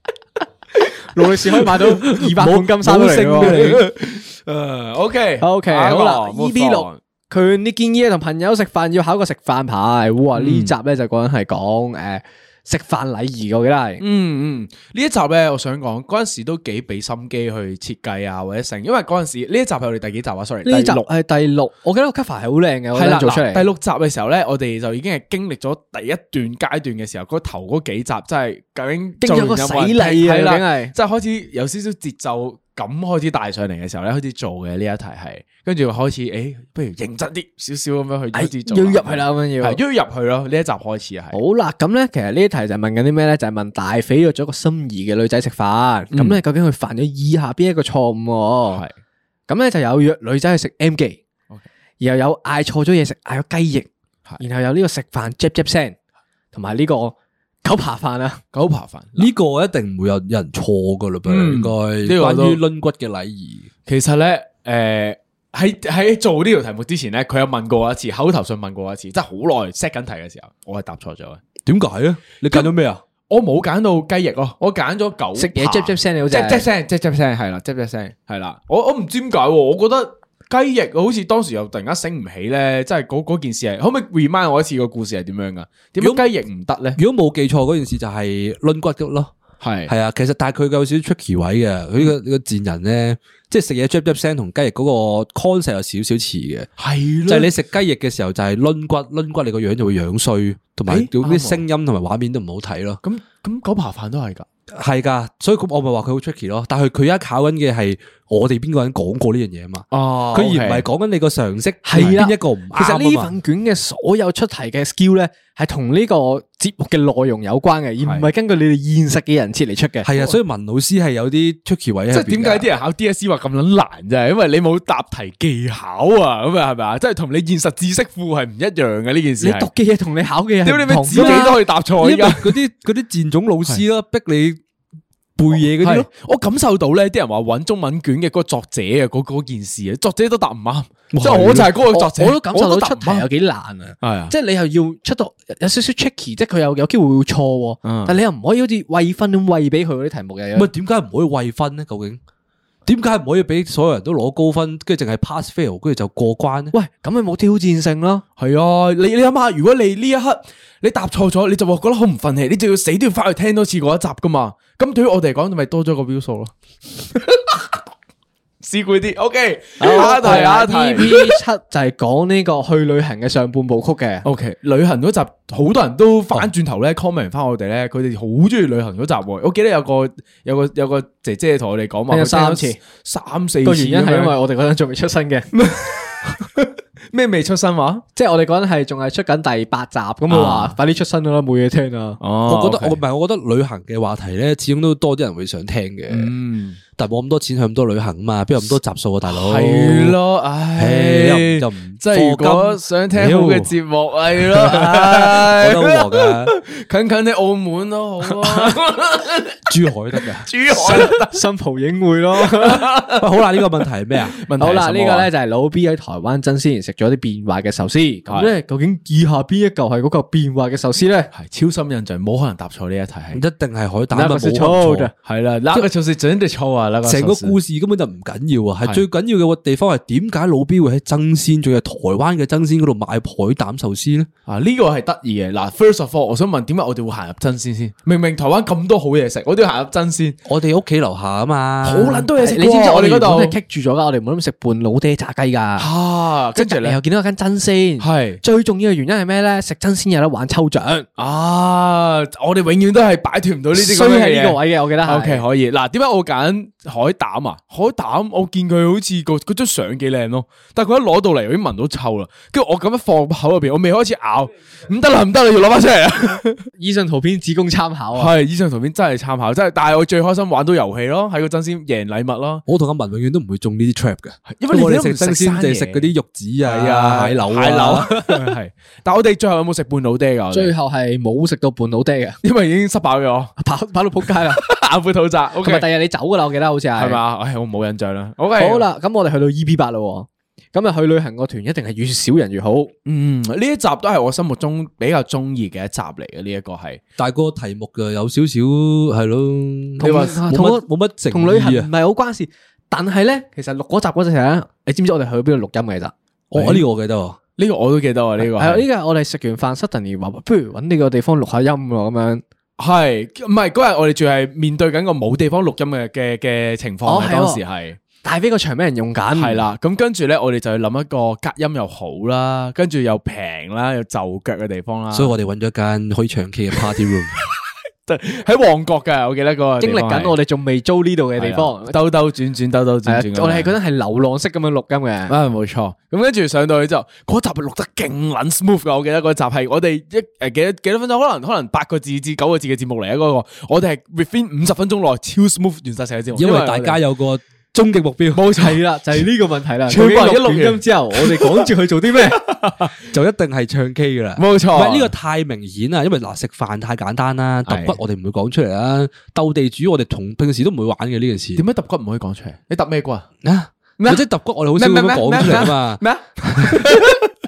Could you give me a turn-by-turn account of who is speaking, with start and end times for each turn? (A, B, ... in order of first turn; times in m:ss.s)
0:01.1-0:03.8 A
0:01.3-0:01.8 B
0:02.1-0:03.9 C
0:03.3-0:07.0 B
0:05.4-0:14.0 A
0:10.4-0:10.7 B
0:14.0-0:21.0 B
0:20.6-0:23.6 A
0:22.9-0:41.4 B
0:29.2-0:30.9 A
0:38.3-0:39.8 A
0:41.3-0:48.8 A
0:46.1-0:46.4 B
0:49.5-0:51.2 A
0:52.0-0:53.9 A
0:54.4-0:56.0 A
0:56.5-0:58.4 A
0:58.5-0:59.3 B
0:59.2-1:03.7 C
1:01.3-1:02.6 B
1:03.9-1:11.4 B
1:11.6-1:13.0 C
1:12.5-1:12.7 B
1:13.3-1:27.0 B
1:15.4-1:16.7 A
1:27.0-1:29.3 C
1:29.6-1:29.9 B
1:29.9-1:36.7 C
1:36.8-1:37.5 B
1:37.3-1:43.0 C
1:40.9-1:41.6 B
1:43.0-1:44.5 B
1:44.7-1:53.3 C
1:49.9-1:50.9 B
1:51.8-2:00.1 A
1:58.0-1:58.3 B
2:00.0-2:02.7 C
2:02.1-2:09.7 B
2:09.4-2:11.6 A
2:10.6-2:12.6 B
2:11.1-2:14.6 C
2:15.4-2:16.1 C
2:15.5-2:23.3 B
2:21.1-2:21.7 C
2:21.5-2:30.7 A
2:24.0-2:24.3 B
2:27.8-2:28.2 B
2:30.6-2:32.2 C
2:32.8-2:36.7 C
2:36.7-2:38.2 A
2:38.4-2:46.5 B
2:47.1-2:47.6 B
2:48.6-2:51.4 B
2:49.8-2:54.2 A
2:54.2-3:04.4 B
3:02.1-3:02.8 A
3:03.6-3:05.5 A
3:05.5-3:08.0 B
3:08.2-3:12.2 A
3:10.3-3:10.8 B
3:12.2-3:13.0 B
3:12.5-3:16.3 C
3:16.1-3:16.8 B
3:17.0-3:20.2 C
3:19.3-3:29.7 B
3:20.8-3:23.7 C
3:24.4-3:26.6 C
3:29.7-3:30.5 C
3:30.4-3:31.4 B
3:30.8-3:32.8 A
3:32.5-3:33.6 B
3:33.1-3:34.4 C
3:34.4-3:35.3 B
3:34.6-3:41.3 A
3:38.3-3:38.5 B
3:41.3-3:43.4 B
3:43.3-3:45.1 C
3:44.1-3:45.1 A
3:45.2-3:47.6 B
3:47.0-3:54.3 C
3:54.5-4:00.4 B
4:00.4-4:02.3 C
4:01.8-4:03.6 B
4:02.4-4:05.9 A
4:05.8-4:07.0 B
4:06.6-4:11.1 A
4:08.0-4:08.4 B
4:11.2-4:26.6 B
4:13.7-4:15.4 A
4:26.8-4:28.3 A
4:28.2-4:32.6 B
4:32.7-4:38.5 C
4:34.5-4:36.1 B
4:36.6-4:40.7 B
4:40.5-4:42.4 A
4:42.4-4:43.6 B
4:43.6-4:44.6 A
4:44.5-4:45.9 B
4:45.6-4:47.2 A
4:47.0-4:48.9 B
4:48.6-4:52.9 A
4:53.1-4:57.0 B
4:57.2-5:01.9 C
5:00.0-5:06.1 A
5:00.0-5:00.4 B
5:06.5-5:07.4 C
5:07.6-5:08.8 B
5:08.4-5:12.4 A
5:12.8-5:18.0 B
5:17.1-5:17.6 A
5:18.2-5:19.6 A
5:19.4-5:25.3 B
5:25.1-5:27.4 C
5:28.1-5:30.4 B
5:29.8-5:32.0 A
5:31.4-5:33.7 B
5:33.1-5:35.3 A
5:35.3-5:47.0 B
5:46.4-5:48.5 C
5:48.3-5:48.8 B
5:48.6-5:52.4 A
5:49.9-5:51.7 B
5:52.3-5:52.9 B
5:53.1-6:01.6 C
5:54.4-5:55.1 B
5:57.7-5:58.0 B
6:01.6-6:03.3 B
6:03.4-6:07.0 C
6:04.0-6:07.3 B